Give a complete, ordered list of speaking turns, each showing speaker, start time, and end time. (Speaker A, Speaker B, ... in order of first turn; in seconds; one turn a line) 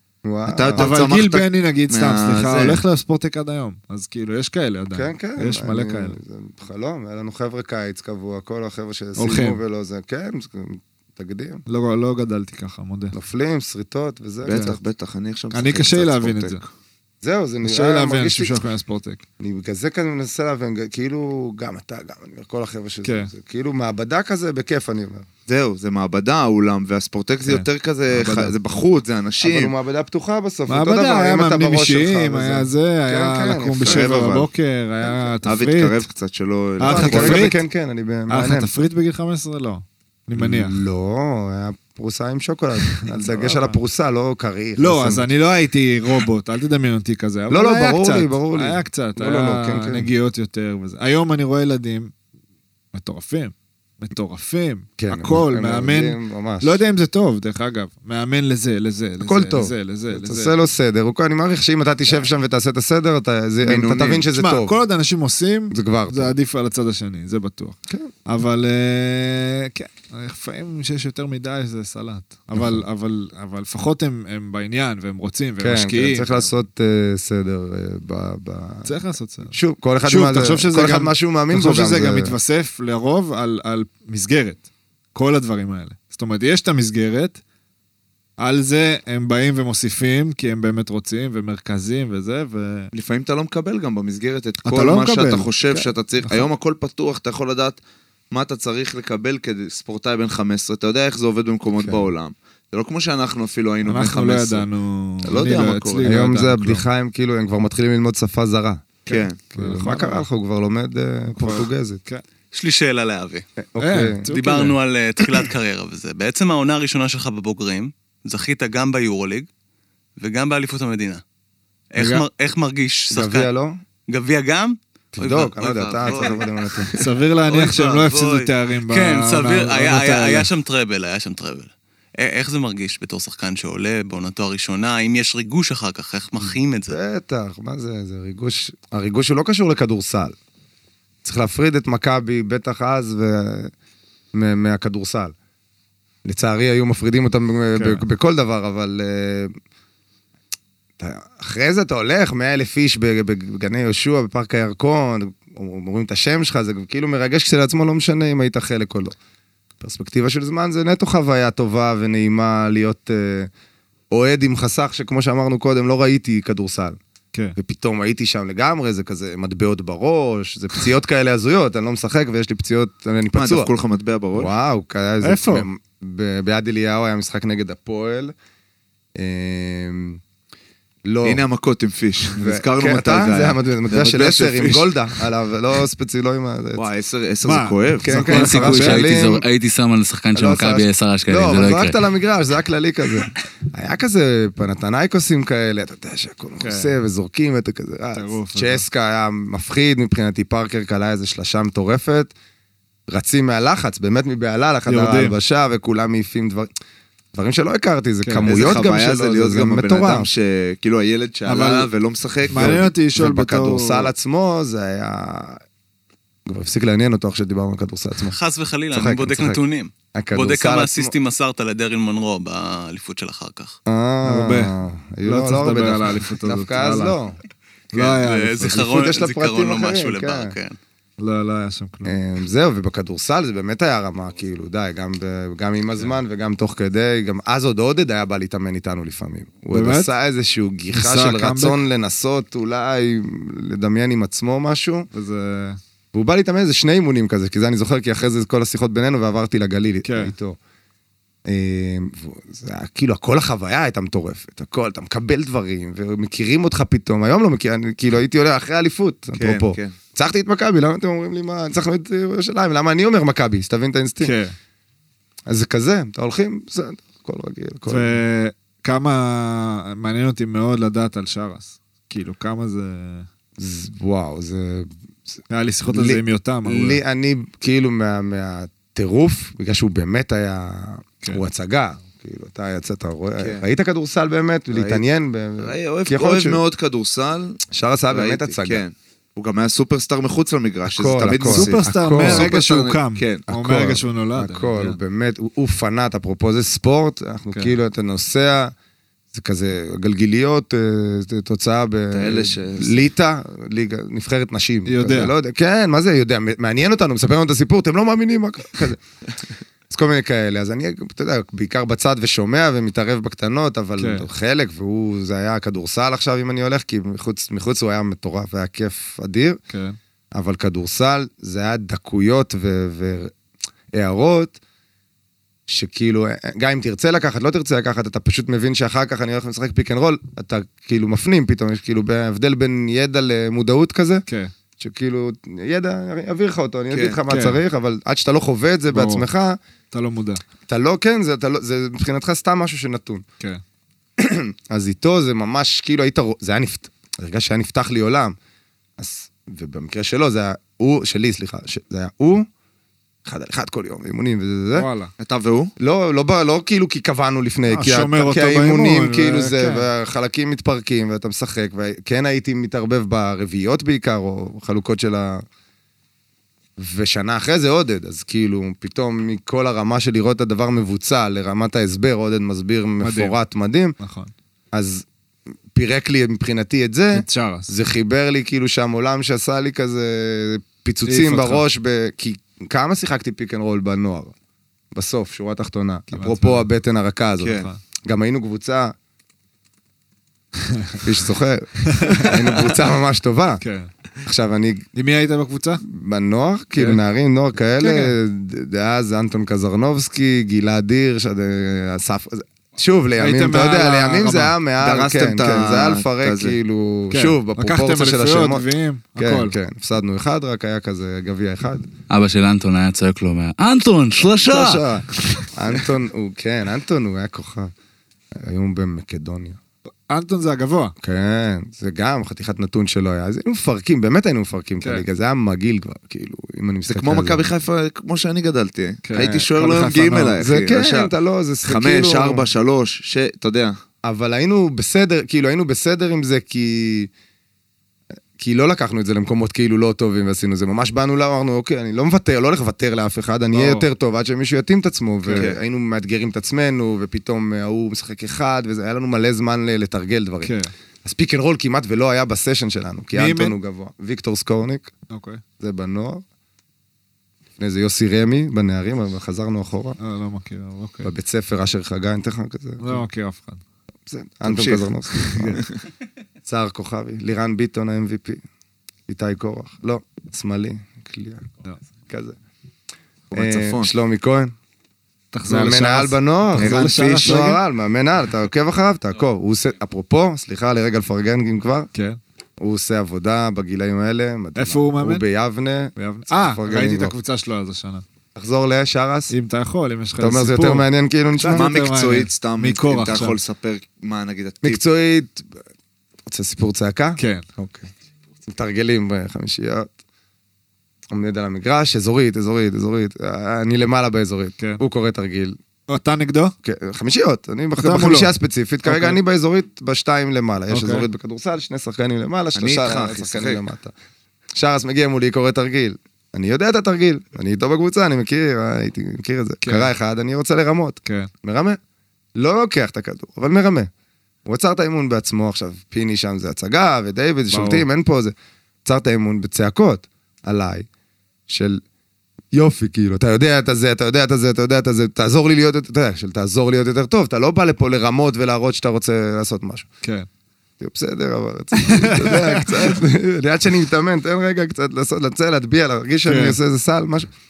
Speaker A: 0.2-0.9
Speaker B: 0.5-2.8
Speaker C: 0.8-6.2
Speaker A: 4.9-11.6
Speaker C: 9.2-9.6
Speaker C: 11.7-13.1
Speaker A: 13.1-14.8
Speaker B: 14.4-16.6
Speaker C: 14.5-14.8
Speaker C: 15.5-16.6
Speaker A: 17.2-18.6
Speaker C: 17.6-19.2
Speaker A: 19.4-25.3
Speaker C: 23.0-23.3
Speaker B: 25.5-29.7
Speaker C: 27.4-28.5
Speaker A: 29.4-34.1
Speaker C: 30.7-36.0
Speaker B: 33.8-34.5
Speaker B: 35.4-37.4
Speaker C: 36.8-37.6
Speaker A: 36.8-38.7
Speaker C: 38.3-40.8
Speaker A: 40.4-45.3
Speaker C: 42.8-43.8
Speaker C: 44.8-52.1
Speaker A: 47.5-50.1
Speaker C: 52.9-60.5
Speaker A: 55.0-56.8
Speaker A: 59.2-64.7
Speaker C: 63.6-76.5
Speaker A: 65.7-66.3
Speaker A: 75.6-78.9
Speaker C: 78.8-87.4
Speaker A: 79.5-82.3
Speaker C: 88.4-92.9
Speaker B: 92.9-97.8
Speaker C: 94.6-95.5
Speaker B: 98.3-104.7
Speaker A: 101.8-102.0
Speaker C: 103.8-106.8
Speaker B: 105.2-106.1
Speaker A: 106.0-108.9
Speaker C: 109.0-110.2
Speaker B: 109.1-109.4
Speaker A: 109.5-112.0
Speaker C: 111.3-112.2
Speaker D: 112.5-113.4
Speaker A: 113.6-114.3
Speaker C: 113.8-114.8
Speaker D: 114.3-119.5
Speaker D: 120.2-121.2
Speaker D: 121.9-123.5
Speaker C: 122.0-122.2
Speaker A: 123.1-123.7
Speaker D: 124.1-126.9
Speaker A: 125.1-126.9
Speaker B: 126.0-126.4
Speaker C: 127.0-130.5
Speaker B: 127.5-128.4
Speaker D: 128.9-137.0
Speaker A: 136.4-140.3
Speaker A: 141.2-143.7
Speaker A: 144.3-145.3
Speaker A: 146.2-149.5
Speaker C: 147.7-148.0
Speaker A: 151.0-159.1
Speaker A: 159.8-163.5
Speaker A: 164.1-167.0
Speaker A: 167.6-173.7
Speaker B: 173.3-174.5
Speaker A: 174.3-178.3
Speaker C: 175.2-175.7
Speaker A: 179.2-180.2
Speaker A: 181.1-181.4
Speaker B: 181.2-185.2
Speaker A: 182.3-186.8
Speaker B: 186.8-188.3
Speaker C: 187.4-189.1
Speaker A: 188.0-189.4
Speaker E: 188.2-192.0
Speaker A: 190.3-202.3
Speaker C: 196.6-197.0
Speaker C: 198.1-198.8
Speaker A: 203.1-206.7
Speaker C: 204.8-205.3
Speaker A: 207.3-210.3
Speaker C: 208.2-208.5
Speaker B: 208.4-213.7
Speaker C: 211.4-211.9
Speaker C: 212.5-214.1
Speaker A: 212.5-212.9
Speaker A: 213.4-215.6
Speaker A: 216.4-218.4
Speaker D: 218.3-223.8
Speaker A: 218.9-219.6
Speaker A: 220.1-221.2
Speaker A: 223.8-227.4
Speaker C: 224.2-227.2
Speaker C: 227.9-228.8
Speaker D: 227.9-230.8
Speaker A: 228.6-230.5
Speaker C: 231.2-232.1
Speaker A: 232.0-245.1
Speaker C: 239.7-240.1
Speaker C: 240.9-241.8
Speaker C: 245.1-245.8
Speaker A: 246.1-250.6
Speaker C: 250.0-250.3
Speaker A: 251.5-264.3
Speaker B: 259.4-259.9
Speaker C: 264.2-264.5
Speaker A: 265.5-268.1
Speaker C: 267.9-273.3
Speaker A: 273.6-286.6
Speaker C: 275.5-277.0
Speaker B: 283.4-283.6
Speaker B: 284.7-285.0
Speaker B: 285.6-293.4
Speaker A: 287.7-288.8
Speaker A: 290.9-292.5
Speaker C: 291.4-295.0
Speaker A: 293.5-298.7
Speaker A: 299.3-309.0
Speaker B: 302.1-303.1
Speaker C: 304.9-305.3
Speaker A: 309.9-319.6
Speaker C: 314.0-314.3
Speaker C: 319.7-320.0
Speaker A: 320.3-323.3
Speaker A: 323.9-324.6
Speaker A: 325.7-334.2
Speaker C: 334.3-334.5
Speaker A: 334.8-339.6
Speaker B: 336.9-337.2
Speaker C: 337.3-337.6
Speaker C: 338.9-339.2
Speaker C: 339.9-340.4
Speaker A: 340.7-343.2
Speaker A: 344.2-348.3
Speaker A: 349.0-352.5
Speaker A: 353.2-354.9
Speaker C: 354.7-355.1
Speaker B: 355.2-355.7
Speaker A: 355.8-365.4
Speaker C: 357.7-359.9
Speaker A: 366.8-373.9
Speaker C: 373.0-373.4
Speaker C: 374.0-374.3
Speaker A: 374.7-375.0
Speaker A: 375.7-384.3
Speaker C: 377.1-377.7
Speaker C: 381.1-381.6
Speaker A: 384.9-388.9
Speaker C: 386.1-386.6
Speaker B: 387.4-387.7
Speaker C: 387.5-387.8
Speaker C: 390.6-391.0
Speaker A: 391.0-393.6
Speaker C: 391.8-392.4
Speaker C: 393.6-393.9
Speaker A: 394.2-394.9
Speaker C: 394.9-395.8
Speaker A: 395.8-408.6
Speaker C: 397.8-398.1
Speaker C: 403.2-404.6
Speaker B: 404.8-406.6
Speaker C: 407.1-409.6
Speaker A: 409.2-411.9
Speaker E: 412.1-414.8
Speaker B: 414.3-414.7
Speaker A: 414.4-417.7
Speaker A: 418.3-419.6
Speaker C: 420.1-420.9
Speaker A: 421.0-427.5
Speaker B: 426.9-431.1
Speaker C: 429.0-430.4
Speaker A: 430.4-432.4
Speaker B: 431.6-433.8
Speaker A: 434.0-437.1
Speaker A: 438.4-454.9
Speaker C: 443.5-443.9
Speaker C: 445.2-445.5
Speaker C: 450.4-450.7
Speaker C: 453.1-453.6
Speaker C: 455.1-455.4
Speaker A: 455.6-456.2
Speaker A: 457.6-460.0
Speaker C: 460.0-461.1
Speaker A: 461.0-463.0
Speaker C: 462.8-463.6
Speaker A: 464.1-465.6
Speaker B: 464.4-464.9
Speaker C: 465.1-465.6
Speaker A: 466.4-468.4
Speaker A: 469.1-471.5
Speaker A: 472.1-472.4
Speaker B: 473.3-473.9
Speaker A: 473.3-474.5
Speaker C: 475.3-477.6
Speaker A: 475.5-481.9
Speaker C: 481.9-482.2
Speaker A: 482.6-487.1
Speaker C: 484.6-485.2
Speaker C: 485.9-488.0
Speaker A: 488.3-489.3
Speaker C: 489.3-493.4
Speaker A: 490.2-491.7
Speaker B: 491.5-494.8
Speaker A: 494.6-495.6
Speaker A: 496.2-497.9
Speaker C: 497.2-497.4
Speaker A: 498.5-499.9
Speaker A: 501.1-505.6
Speaker C: 505.9-506.5
Speaker A: 506.6-513.9
Speaker C: 507.8-508.3
Speaker C: 508.8-509.2
Speaker C: 510.7-511.1
Speaker B: 512.5-513.6
Speaker A: 514.5-521.8
Speaker C: 519.6-519.9
Speaker C: 521.0-521.3
Speaker A: 522.4-523.9
Speaker A: 524.5-528.3
Speaker C: 527.5-527.9
Speaker A: 528.8-530.9
Speaker A: 531.5-531.8
Speaker A: 532.5-539.9
Speaker A: 540.8-547.3
Speaker C: 541.8-543.0
Speaker C: 546.2-546.6